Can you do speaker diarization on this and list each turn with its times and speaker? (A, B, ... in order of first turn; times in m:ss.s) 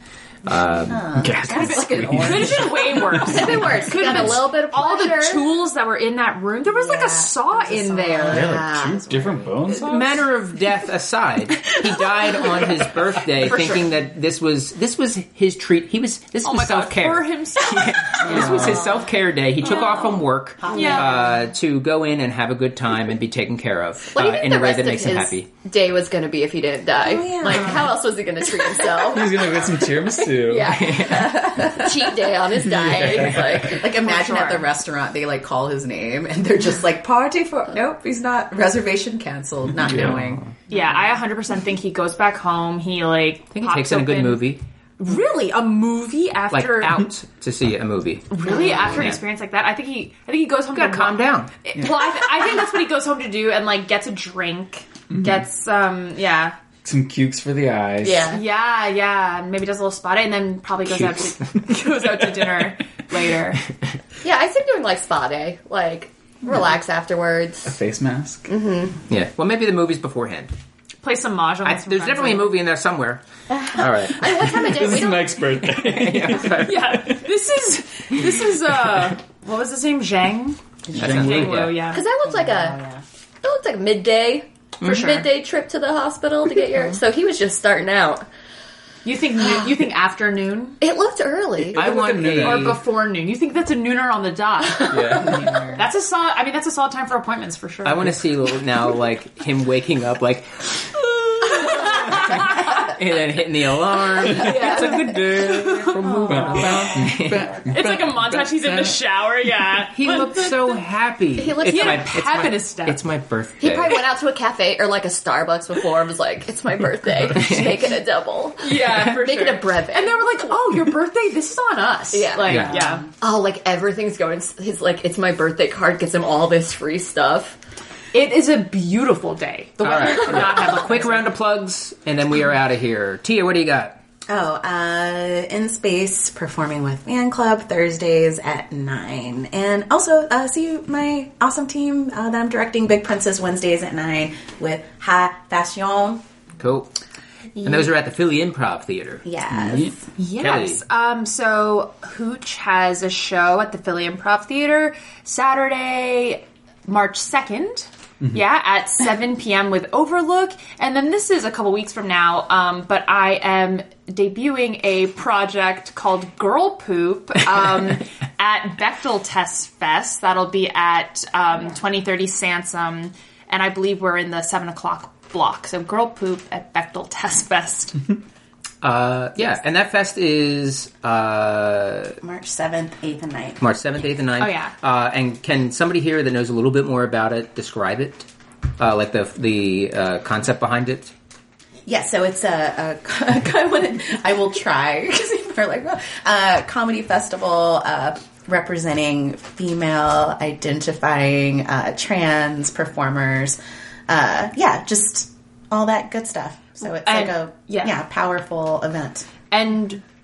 0:00.4-0:01.2 A
0:00.8-0:03.8 B
0:01.2-0:02.7 C
0:01.5-0:08.5 D
0:03.2-0:05.5 E
0:06.6-0:08.4 B
0:08.2-0:09.6 E
0:08.3-0:10.3 C
0:09.7-0:25.5 A
0:11.9-0:12.2 B
0:13.4-0:13.9 D
0:16.4-0:18.9 D
0:18.4-0:18.8 B
0:19.6-0:21.4 B
0:20.7-0:21.1 D
0:24.1-0:33.9 E
0:27.0-0:28.0 B
0:29.0-0:31.1 C
0:30.6-0:31.6 A
0:31.0-0:32.1 B
0:32.7-0:33.7 C
0:33.1-0:40.4 B
0:34.0-0:34.7 D
0:39.8-0:40.3 C
0:39.9-0:40.6 A
0:40.7-0:47.1 D
0:43.5-0:44.6 A
0:46.5-0:49.2 A
0:48.3-0:56.6 D
0:48.5-0:48.8 E
0:48.5-0:48.8 B
0:50.7-0:51.5 A
0:56.8-0:58.3 C
0:58.0-0:58.4 E
0:58.3-1:03.7 D
1:04.2-1:07.7 E
1:07.6-1:08.5 C
1:08.5-1:09.0 E
1:09.1-1:10.5 A
1:11.0-1:12.6 D
1:11.6-1:14.4 A
1:14.0-1:15.5 E
1:14.3-1:17.2 C
1:15.7-1:16.9 A
1:16.5-1:22.0 D
1:20.9-1:21.8 C
1:21.0-1:22.0 A
1:21.9-1:22.8 E
1:22.2-1:23.0 B
1:23.4-1:28.2 E
1:24.8-1:25.2 A
1:24.8-1:25.3 D
1:29.0-1:30.8 D
1:30.8-1:32.0 E
1:31.6-1:32.8 C
1:31.7-1:32.8 A
1:32.4-1:38.2 D
1:34.9-1:35.5 C
1:35.2-1:35.8 B
1:37.8-1:47.6 A
1:41.6-1:42.7 D
1:44.2-1:46.7 D
1:44.4-1:45.0 E
1:44.5-1:49.0 C
1:46.0-1:47.2 B
1:47.7-1:50.8 D
1:49.9-1:54.0 A
1:51.4-1:52.1 E
1:51.5-1:53.0 D
1:53.6-2:00.6 E
1:57.3-1:57.8 A
1:58.6-2:03.1 D
2:02.1-2:07.6 E
2:02.5-2:02.7 A
2:08.1-2:11.3 D
2:09.8-2:14.0 A
2:14.3-2:26.2 B
2:26.6-2:26.9 A
2:27.6-2:29.3 A
2:29.2-2:30.0 B
2:29.6-2:29.9 C
2:30.2-2:58.1 D
2:30.4-2:30.8 A
2:58.8-3:02.2 A
3:02.2-3:03.6 B
3:03.6-3:11.1 A
3:04.4-3:04.8 D
3:11.9-3:29.3 B
3:27.0-3:28.0 D
3:29.5-3:30.0 D